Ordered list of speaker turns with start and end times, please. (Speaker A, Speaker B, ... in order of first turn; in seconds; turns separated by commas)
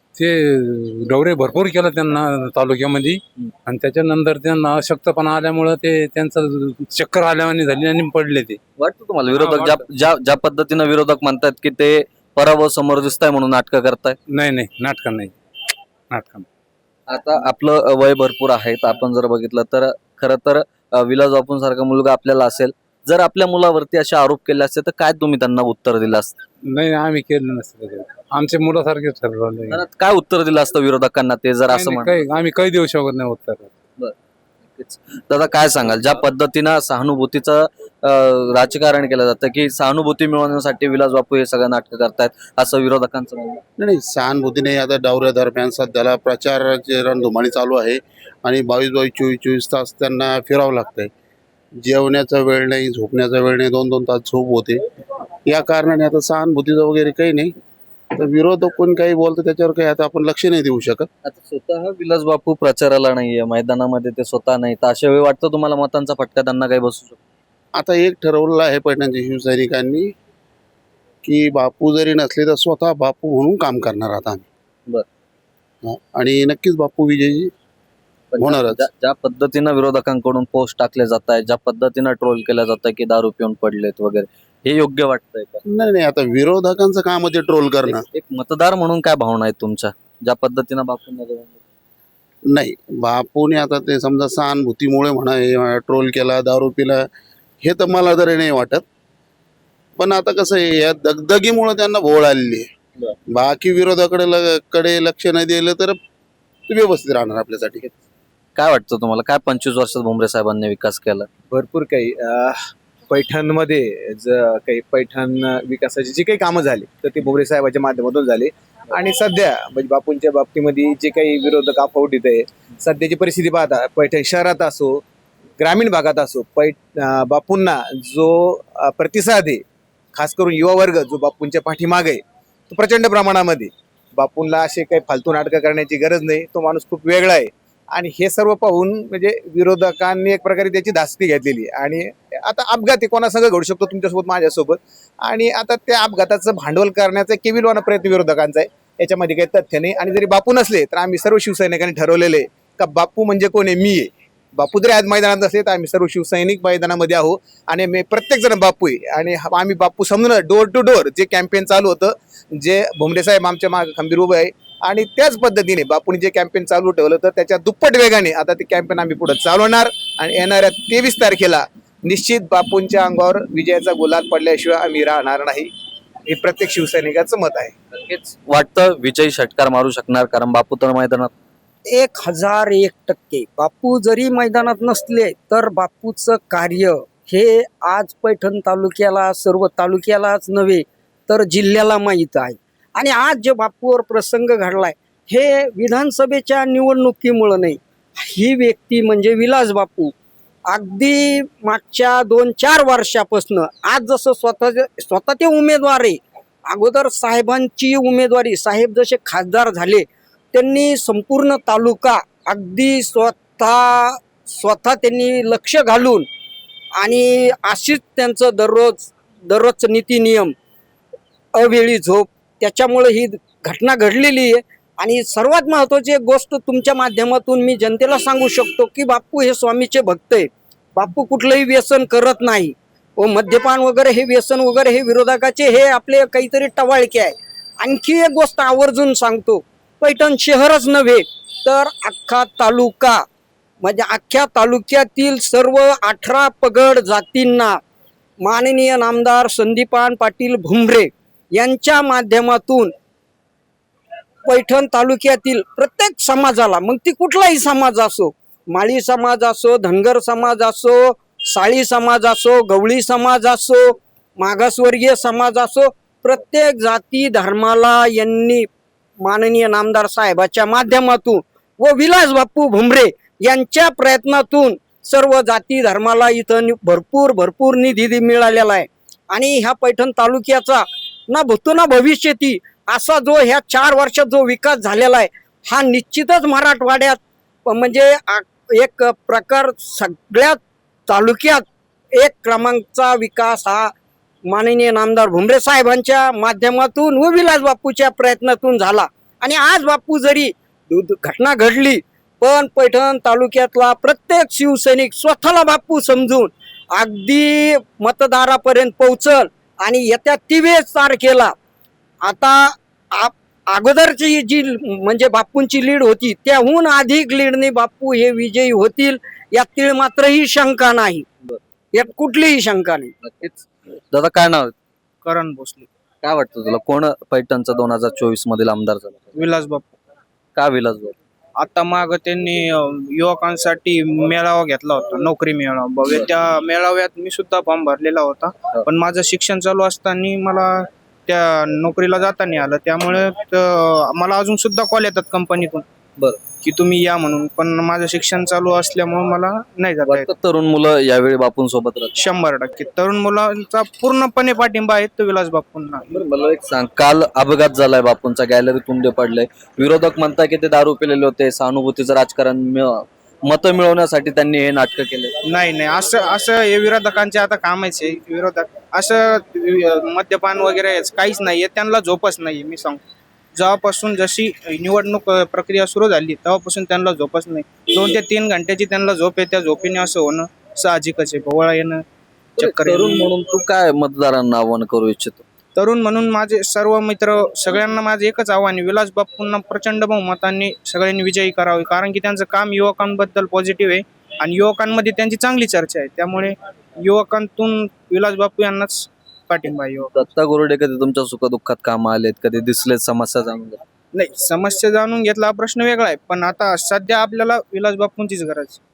Speaker A: 0.1-8.6, Speaker B: 8.8-14.2, Speaker A: 9.3-9.8, Speaker A: 14.3-15.3, Speaker A: 16.1-16.4, Speaker B: 17.1-26.4, Speaker A: 26.6-29.8, Speaker B: 29.7-32.2, Speaker A: 31.7-33.7, Speaker B: 34.8-43.6, Speaker C: 43.8-51.1, Speaker C: 51.8-54.8, Speaker C: 55.5-57.5, Speaker C: 58.1-61.1, Speaker B: 61.2-67.2, Speaker C: 67.8-70.1, Speaker C: 71.2-74.5, Speaker C: 75.8-77.5, Speaker B: 78.3-85.6, Speaker C: 78.4-78.8, Speaker C: 85.7-88.0, Speaker B: 87.9-91.6, Speaker C: 92.5-97.1, Speaker C: 97.6-98.8, Speaker C: 100.0-102.7, Speaker C: 103.3-106.0, Speaker C: 106.7-107.9, Speaker B: 108.5-111.3, Speaker D: 111.5-125.0, Speaker D: 125.6-175.7, Speaker D: 176.3-177.7, Speaker B: 177.9-181.3, Speaker E: 181.9-200.1, Speaker E: 200.7-216.3, Speaker E: 217.0-220.5, Speaker E: 221.6-243.2, Speaker E: 243.8-247.8, Speaker E: 248.4-252.9, Speaker E: 254.5-268.6, Speaker E: 269.2-291.6, Speaker E: 292.1-293.9, Speaker E: 294.5-311.5, Speaker E: 312.2-321.2, Speaker E: 321.9-323.1, Speaker B: 323.2-324.7, Speaker F: 325.2-325.9, Speaker B: 326.2-329.3, Speaker F: 329.3-329.9, Speaker B: 330.5-331.1, Speaker F: 331.6-345.8, Speaker F: 346.6-350.3, Speaker B: 350.1-352.1, Speaker F: 352.1-356.1, Speaker B: 356.1-365.3, Speaker F: 365.5-373.0, Speaker F: 373.6-382.0, Speaker B: 382.6-385.4, Speaker F: 382.6-383.3, Speaker F: 385.8-400.3, Speaker B: 400.1-403.8, Speaker F: 404.1-408.8